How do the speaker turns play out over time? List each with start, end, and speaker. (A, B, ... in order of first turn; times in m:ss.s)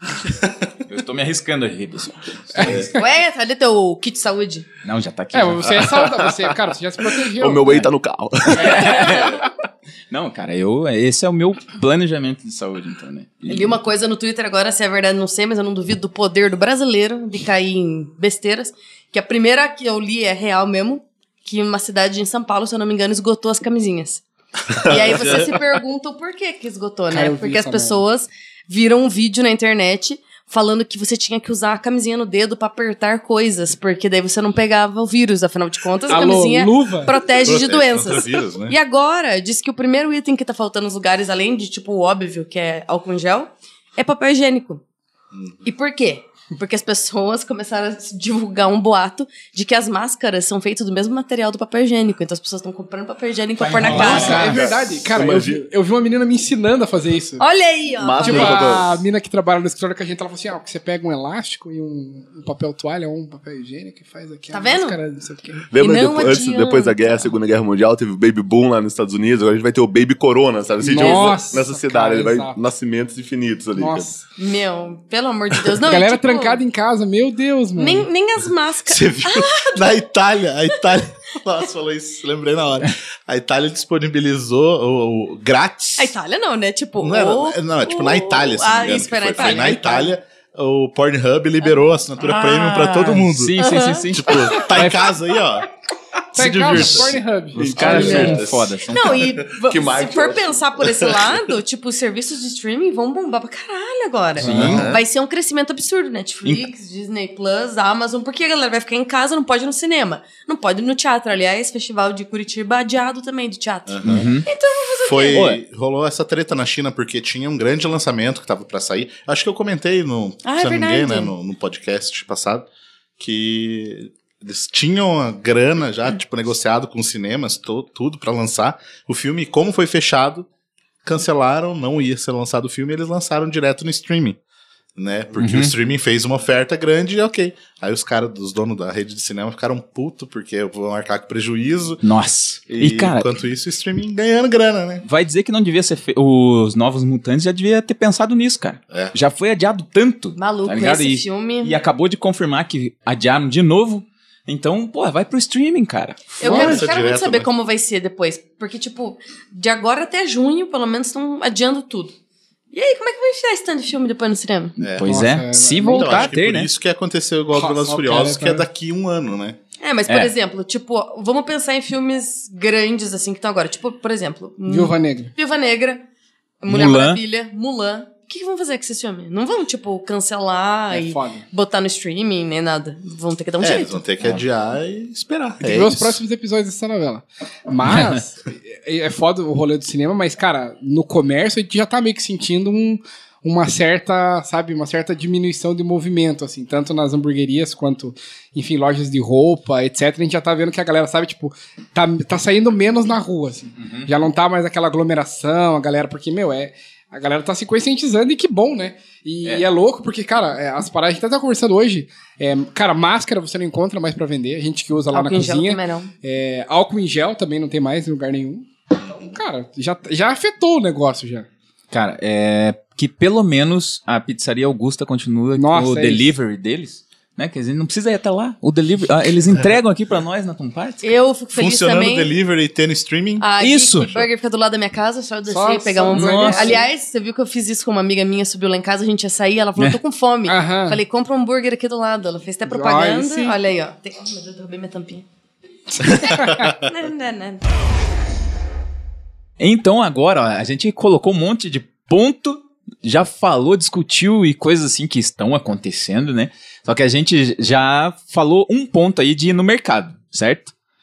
0:00.2-0:00.5 A
0:00.9-0:02.8 B
0:02.6-0:03.0 C
0:02.6-0:02.9 A
0:02.9-0:04.7 D
0:04.8-0:06.0 B
0:05.3-0:07.7 C
0:05.8-0:06.6 E
0:07.3-0:09.1 E
0:08.5-0:09.4 B
0:08.7-0:09.4 D
0:10.1-0:13.8 B
0:13.5-0:24.2 D
0:24.8-0:25.4 E
0:24.8-0:44.8 D
0:24.8-0:25.3 A
0:27.1-0:28.0 C
0:36.1-0:37.1 C
0:37.4-0:38.8 A
0:45.3-0:45.6 A
0:45.6-0:54.6 D
0:53.6-0:54.6 B
0:53.9-0:57.4 C
0:54.0-0:55.6 E
0:57.4-0:58.8 D
0:58.0-0:59.0 E
0:58.2-1:05.7 C
1:04.5-1:05.0 D
1:05.7-1:14.1 E
1:05.8-1:07.1 D
1:10.8-1:12.6 C
1:11.0-1:11.3 D
1:13.8-1:14.2 C
1:14.4-1:16.6 D
1:15.8-1:18.1 C
1:17.8-1:19.8 D
1:18.9-1:26.2 A
1:26.0-1:30.1 D
1:27.0-1:33.5 A
1:31.6-1:34.6 D
1:33.3-1:34.9 B
1:34.1-1:35.7 A
1:36.3-1:37.2 A
1:36.3-1:38.2 C
1:37.6-1:38.5 E
1:37.8-1:39.2 B
1:37.8-1:39.1 A
1:37.8-1:55.4 D
1:39.5-1:41.4 E
1:44.4-1:44.9 B
1:44.4-1:44.9 A
1:44.5-1:45.0 E
1:53.9-1:54.3 A
1:54.0-1:54.5 B
1:55.0-2:02.7 A
1:55.3-1:55.6 B
2:00.4-2:01.3 D
2:03.2-2:10.5 A
2:11.0-2:14.4 A
2:15.0-2:22.0 A
2:15.4-2:15.7 B
2:22.0-2:23.3 B
2:22.7-2:25.0 A
2:25.0-2:36.8 B
2:30.4-2:31.8 D
2:36.4-2:42.1 D
2:36.4-2:37.5 A
2:42.7-2:44.8 D
2:44.8-2:45.2 A
2:44.9-2:46.7 B
2:45.1-2:46.3 C
2:45.9-2:49.6 A
2:47.5-2:48.7 C
2:49.8-2:56.0 D
2:54.7-2:55.3 C
2:56.6-3:04.0 D
2:56.7-2:57.2 B
3:00.9-3:01.4 C
3:03.6-3:06.2 A
3:05.6-3:41.5 C
3:23.8-3:24.1 B
3:35.1-3:36.1 D
3:39.0-3:39.4 A
3:41.9-3:51.2 B
3:45.6-3:46.3 C
3:51.0-3:52.3 D
3:51.5-3:53.5 A
3:53.4-4:05.3 D
3:53.6-3:54.3 B
3:55.5-3:56.8 C
3:56.1-3:56.8 B
4:00.5-4:01.0 C
4:02.7-4:03.6 C
4:06.0-4:06.7 C
4:06.0-4:07.6 D
4:09.6-4:20.7 B